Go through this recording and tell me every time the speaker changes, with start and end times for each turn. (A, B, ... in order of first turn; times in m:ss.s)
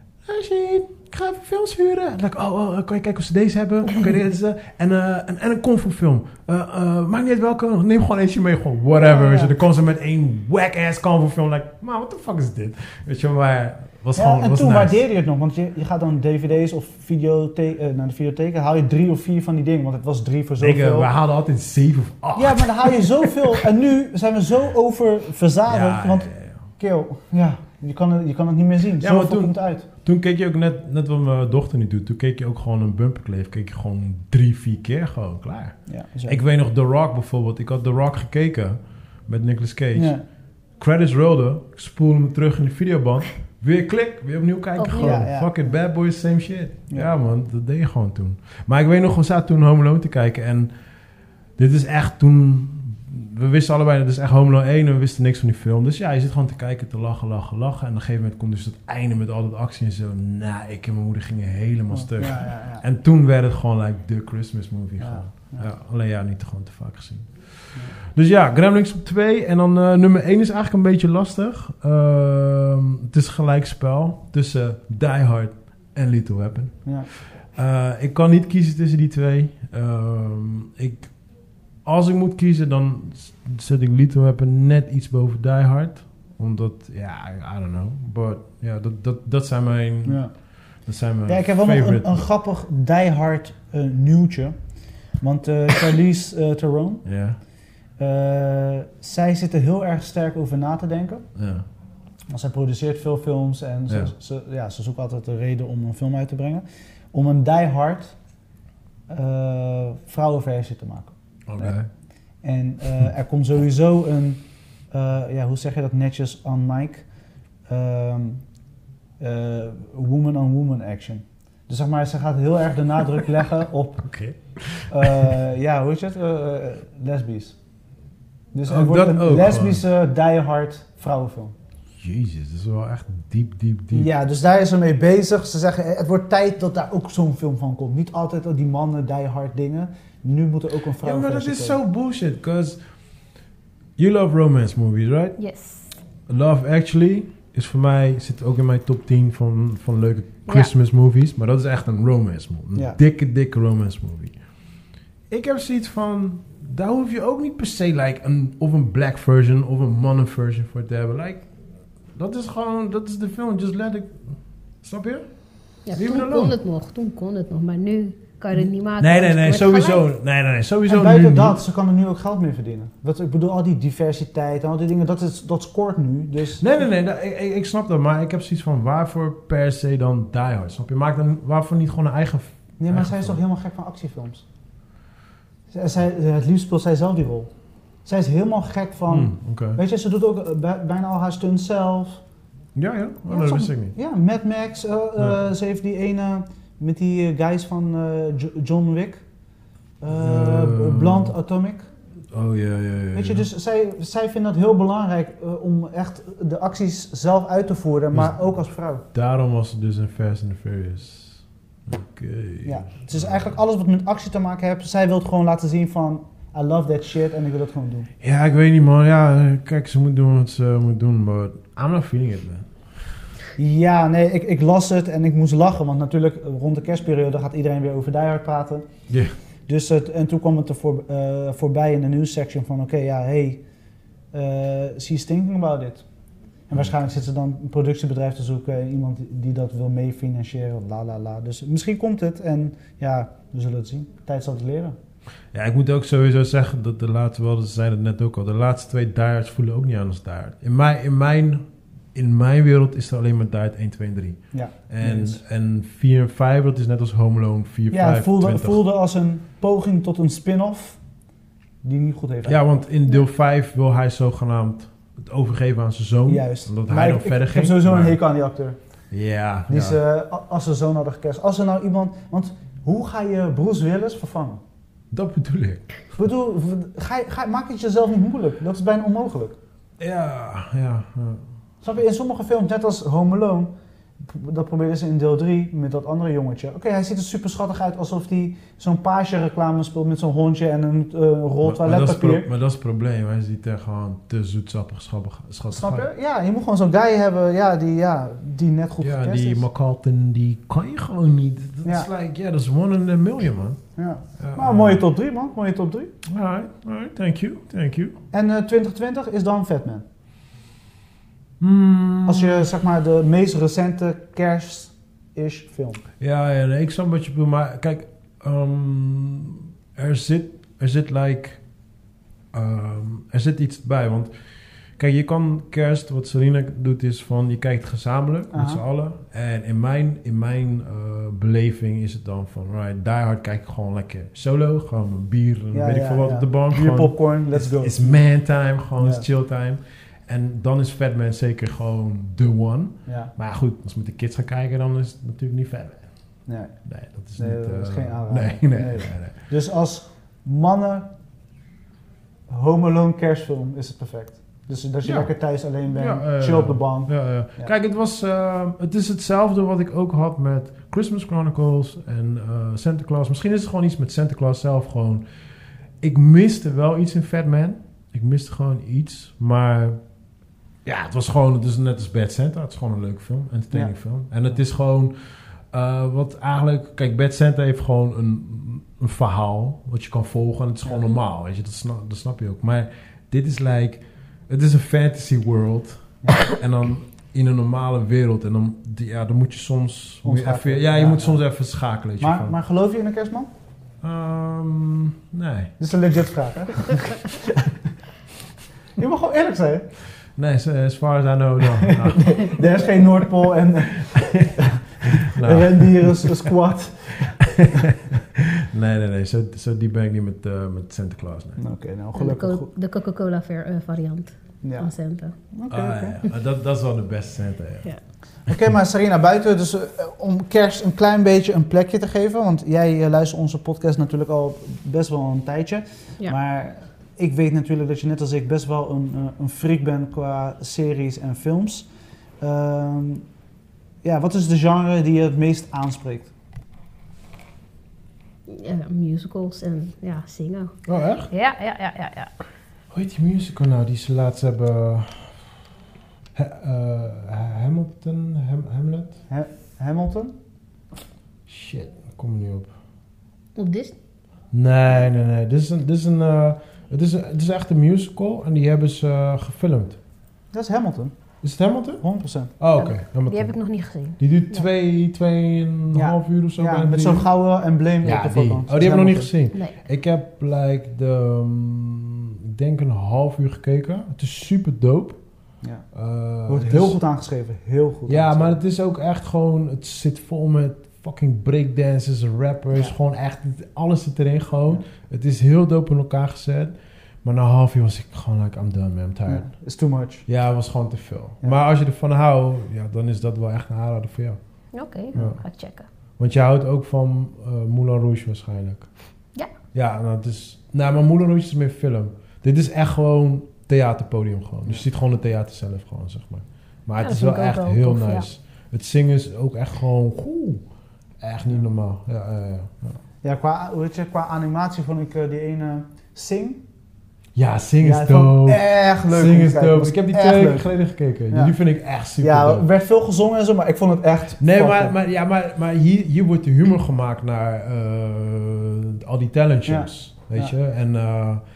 0:00.2-0:15.0 A
0:09.0-0:09.5 B
0:14.2-0:21.1 B
0:20.6-0:23.6 A
0:22.4-0:29.9 B
0:25.7-0:26.6 A
0:29.0-0:40.1 A
0:35.9-0:36.4 B
0:39.9-0:40.2 B
0:40.8-0:50.7 A
0:44.8-0:45.2 C
0:45.0-0:45.7 B
0:51.6-1:21.2 A
1:01.9-1:02.8 B
1:05.0-1:05.7 B
1:21.8-1:32.2 A
1:30.0-1:30.3 B
1:31.2-1:34.6 B
1:35.2-1:37.0 B
1:37.0-1:37.4 A
1:38.0-1:41.2 B
1:41.3-1:41.6 A
1:42.3-1:48.2 B
1:49.1-1:51.7 B
1:51.5-1:51.9 A
1:52.4-1:57.0 B
1:57.7-1:58.4 B
1:59.2-2:04.1 B
2:04.0-2:05.3 A
2:04.9-2:07.6 B
2:08.5-2:11.6 B
2:08.6-2:09.8 A
2:12.0-2:14.1 A
2:13.9-2:21.8 B
2:21.0-2:22.8 A
2:24.0-2:25.4 A
2:25.4-2:25.9 C
2:26.3-2:34.4 A
2:30.4-2:30.7 C
2:35.3-2:41.5 A
2:42.1-2:46.6 A
2:45.9-2:50.0 C
2:49.0-2:51.6 A
2:50.9-2:56.8 B
2:56.6-3:03.4 A
3:02.8-3:04.4 B
3:05.7-3:07.5 B
3:08.0-3:12.2 B
3:09.1-3:09.8 A
3:12.7-3:13.9 A
3:13.3-3:19.2 B
3:20.0-3:21.9 B
3:20.2-3:21.3 A
3:22.3-3:23.4 A
3:23.1-3:29.0 B
3:28.1-3:28.5 A
3:29.1-3:33.6 A
3:32.6-3:38.1 B
3:38.2-3:43.1 A
3:43.6-3:48.9 B
3:49.1-3:49.3 A
3:49.7-3:53.6 B
3:54.3-3:56.0 B
3:56.7-4:05.0 B
4:05.5-4:18.8 A
4:14.5-4:15.4 B
4:17.9-4:21.0 B
4:21.8-4:22.7 B
4:22.4-4:28.2 A
4:26.3-4:28.8 B
4:29.1-4:30.0 A
4:29.7-4:34.6 B
4:35.1-4:35.9 A
4:36.1-4:39.6 B
4:40.0-4:41.4 A
4:41.8-4:43.7 B
4:44.2-4:52.5 B
4:51.6-4:56.1 A
4:55.7-4:59.6 B
4:59.0-5:03.8 A
5:01.8-5:02.1 B
5:04.0-5:06.1 B
5:04.4-5:05.0 A
5:06.2-5:08.1 A
5:08.3-5:10.0 B
5:11.6-5:12.7 A
5:12.2-5:16.0 B
5:16.2-5:21.6 A
5:22.5-5:24.3 A
5:25.0-5:46.1 A
5:28.5-5:28.8 B
5:35.7-5:38.2 B
5:39.0-5:39.2 B
5:43.1-5:43.3 B
5:46.4-5:46.8 B
5:46.8-5:49.3 A
5:47.4-5:51.1 B
5:52.5-5:57.7 B
5:55.0-5:55.3 A
5:55.9-6:05.2 A
6:06.0-6:10.0 A
6:10.8-6:32.6 A
6:30.2-6:31.4 B
6:32.2-6:33.5 B
6:34.0-6:35.7 A
6:35.8-6:37.7 B
6:39.0-6:39.9 B
6:40.4-6:42.6 A
6:41.8-6:47.9 B
6:44.0-6:46.5 A
6:47.4-6:51.6 A
6:51.6-6:52.7 B
6:52.2-6:55.3 C
6:54.6-6:54.9 B
6:55.5-6:56.2 B
6:55.7-6:57.9 A
6:58.5-7:11.9 B
7:12.4-7:13.2 B
7:14.0-7:16.3 B
7:18.5-7:20.8 C
7:20.9-7:21.3 A
7:21.3-7:22.3 C
7:22.9-7:25.4 A
7:26.3-7:29.2 A
7:29.3-7:30.3 B
7:31.5-7:32.7 A
7:33.6-7:33.9 C
7:34.5-7:40.0 A
7:40.5-7:41.2 B
7:41.4-7:42.0 A
7:42.0-7:42.5 B
7:42.6-7:43.6 A
7:42.7-7:44.6 C
7:44.2-7:47.3 A
7:45.9-7:49.3 B
7:48.0-7:55.2 A
7:55.9-7:57.0 A
7:56.5-7:58.6 B
7:58.1-8:09.5 A
8:09.3-8:10.2 B
8:10.3-8:14.4 A
8:14.7-8:15.9 C
8:15.1-8:15.4 A
8:16.2-8:18.9 A
8:19.7-8:30.6 A
8:27.0-8:28.2 C
8:31.2-8:33.0 A
8:33.2-8:36.6 B
8:37.3-8:42.6 A
8:37.8-8:40.7 B
8:42.2-8:44.9 B
8:44.4-8:51.4 A
8:49.6-8:50.5 B